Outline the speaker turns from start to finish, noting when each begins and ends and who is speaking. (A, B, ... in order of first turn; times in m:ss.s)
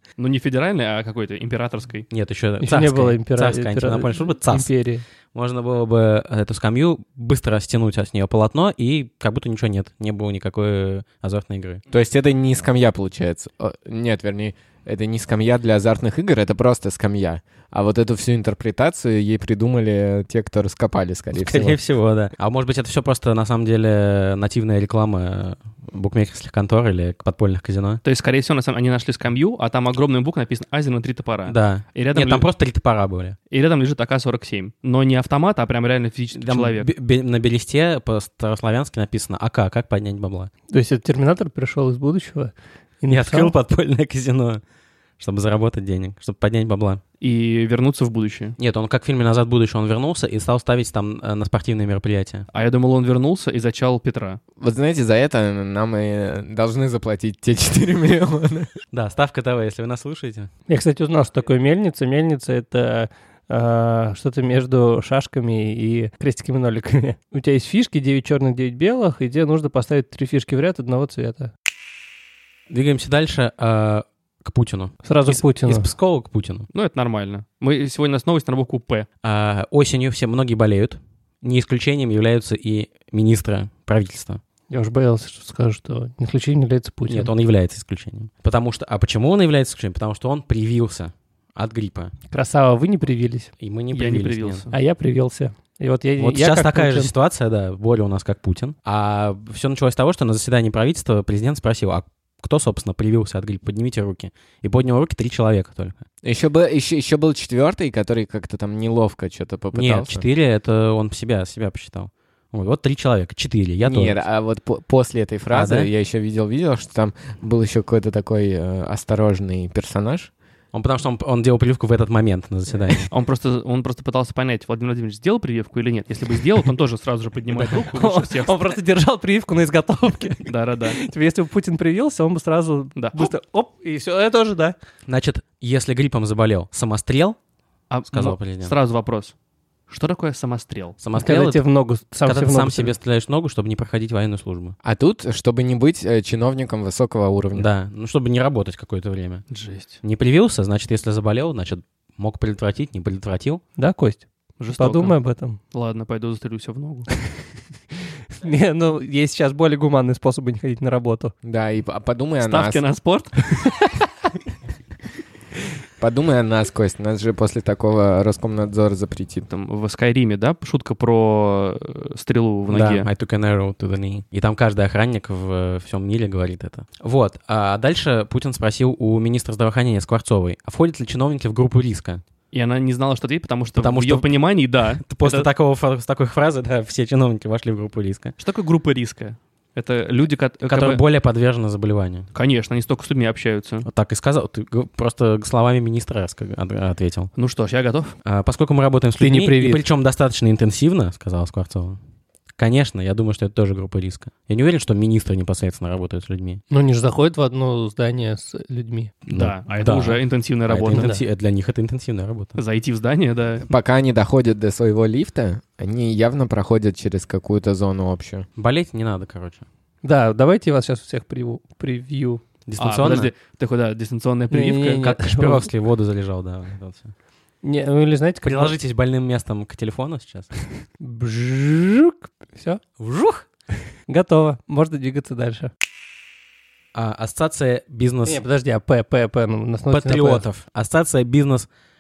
0:00.2-0:02.0 A
0:02.1-0:04.7 B
0:02.6-0:05.0 C
0:05.3-0:11.8 B
0:11.9-0:21.8 D
0:21.3-0:28.0 B
0:28.0-0:32.5 A
0:31.4-0:33.4 B
0:33.5-0:36.9 A
0:36.3-0:40.5 B
0:40.7-0:43.5 C
0:43.1-0:44.6 B
0:45.2-0:47.0 B
0:47.2-0:48.6 A
0:48.6-0:52.4 B
0:52.5-0:54.4 A
0:54.6-0:58.7 D
0:58.9-1:00.5 B
1:00.7-1:11.5 C
1:12.7-1:16.7 B
1:15.0-1:15.9 C
1:16.7-1:19.1 A
1:19.2-1:24.4 B
1:24.7-1:27.3 C
1:27.1-1:32.1 B
1:32.3-1:33.5 C
1:33.6-1:34.6 B
1:33.9-1:34.7 A
1:34.7-1:37.1 C
1:36.2-1:46.0 B
1:46.2-1:50.2 D
1:49.7-1:54.2 B
1:53.8-2:00.3 D
1:55.5-1:55.9 B
2:00.7-2:03.1 B
2:03.1-2:08.6 A
2:07.6-2:14.8 C
2:10.4-2:11.0 A
2:13.0-2:13.3 A
2:15.1-2:17.4 B
2:17.9-2:19.3 A
2:18.1-2:18.7 B
2:19.9-2:21.0 A
2:21.0-2:21.6 B
2:21.1-2:22.9 C
2:22.2-2:24.8 B
2:24.8-2:27.7 D
2:27.5-2:29.4 B
2:29.5-2:30.0 A
2:30.0-2:33.6 B
2:33.8-2:35.6 C
2:34.6-2:35.2 A
2:35.7-2:37.1 A
2:38.3-2:41.3 C
2:41.4-2:42.8 D
2:42.4-2:43.7 A
2:46.0-2:49.5 D
2:49.5-2:53.1 A
2:52.7-3:02.2 B
3:02.5-3:05.5 A
3:03.7-3:04.3 B
3:05.0-3:08.3 B
3:08.4-3:11.0 A
3:10.6-3:12.3 B
3:12.3-3:13.9 A
3:13.8-3:17.3 B
3:17.4-3:18.1 A
3:18.2-3:22.0 B
3:19.2-3:19.8 C
3:22.6-3:26.6 B
3:26.7-3:29.1 C
3:29.3-3:32.6 B
3:29.3-3:31.1 A
3:32.6-3:33.6 A
3:33.6-3:38.5 D
3:38.6-3:39.6 B
3:40.0-3:42.4 C
3:42.6-3:43.3 B
3:42.8-3:45.1 A
3:44.5-3:45.7 C
3:45.0-3:47.1 B
3:47.6-3:48.7 C
3:48.4-3:50.5 B
3:51.0-3:52.8 C
3:53.0-3:53.4 B
3:54.1-3:55.7 C
3:56.9-3:58.4 B
3:58.2-4:00.4 C
3:59.9-4:01.7 B